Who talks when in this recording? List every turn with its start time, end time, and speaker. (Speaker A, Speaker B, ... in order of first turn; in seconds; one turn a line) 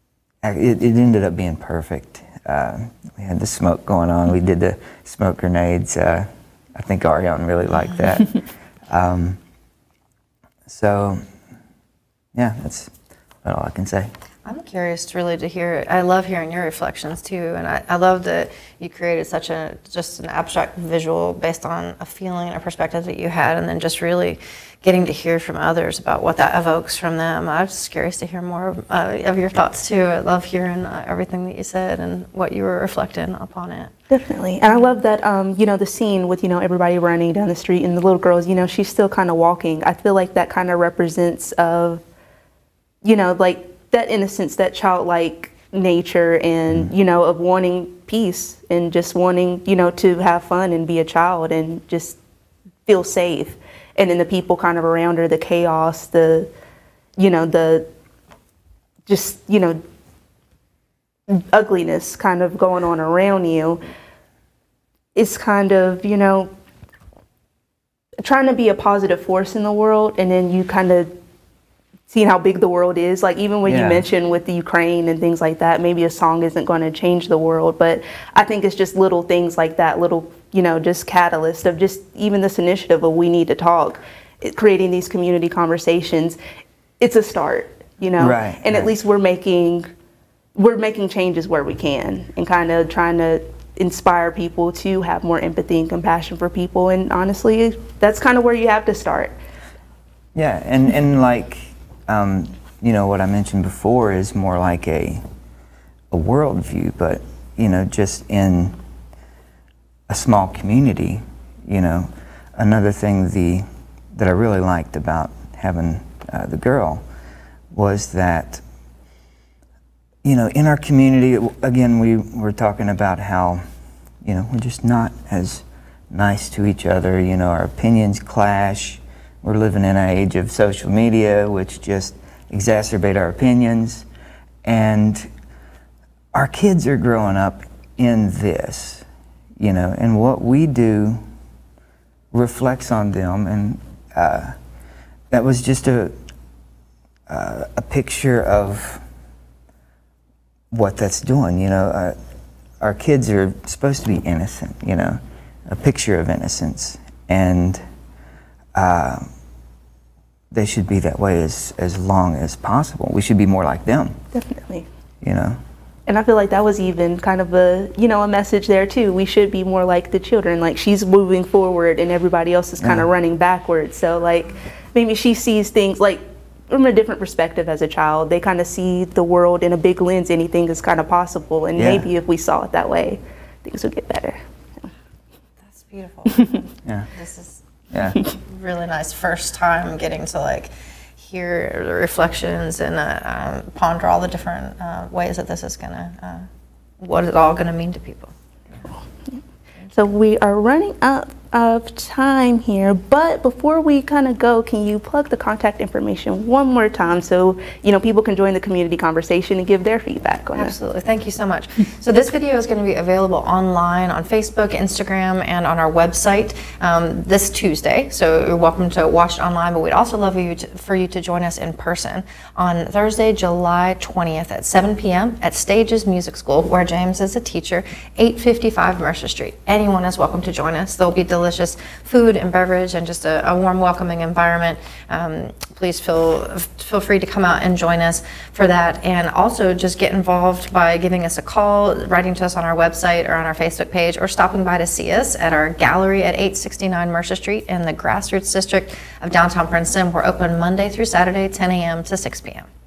Speaker A: 0.4-9.4
Speaker A: 10.7-11.2
Speaker A: 12.3-14.1
Speaker B: 14.4-33.9
Speaker C: 34.1-42.0
Speaker C: 43.0-52.2
Speaker C: 52.9-56.5
Speaker C: 57.2-57.9
Speaker C: 59.1-59.8
Speaker C: 61.3-63.8
Speaker C: 65.1-66.5
Speaker C: 68.2-71.1
Speaker C: 72.1-86.4
Speaker A: 73.6-74.0
Speaker C: 87.0-89.9
Speaker A: 88.2-88.9
Speaker C: 90.6-99.3
Speaker A: 100.3-105.2
Speaker A: 106.1-108.8
Speaker A: 110.1-117.0
Speaker A: 117.7-118.6
Speaker A: 120.2-123.6
Speaker A: 124.2-134.1
Speaker A: 134.6-135.3
Speaker A: 136.3-139.1
Speaker A: 139.6-141.2
Speaker A: 142.3-144.6
Speaker A: 145.3-146.2
Speaker A: 147.3-149.0
Speaker A: 150.7-152.2
Speaker A: 152.8-157.8
Speaker A: 158.7-159.2
Speaker A: 160.5-164.2
Speaker C: 164.3-164.9
Speaker A: 165.2-165.6
Speaker C: 166.1-184.4
Speaker A: 172.8-173.1
Speaker A: 181.8-182.1
Speaker B: 185.7-187.6
Speaker A: 187.9-188.2
Speaker B: 188.2-196.5
Speaker B: 197.0-198.3
Speaker C: 199.9-210.7
Speaker B: 210.6-252.7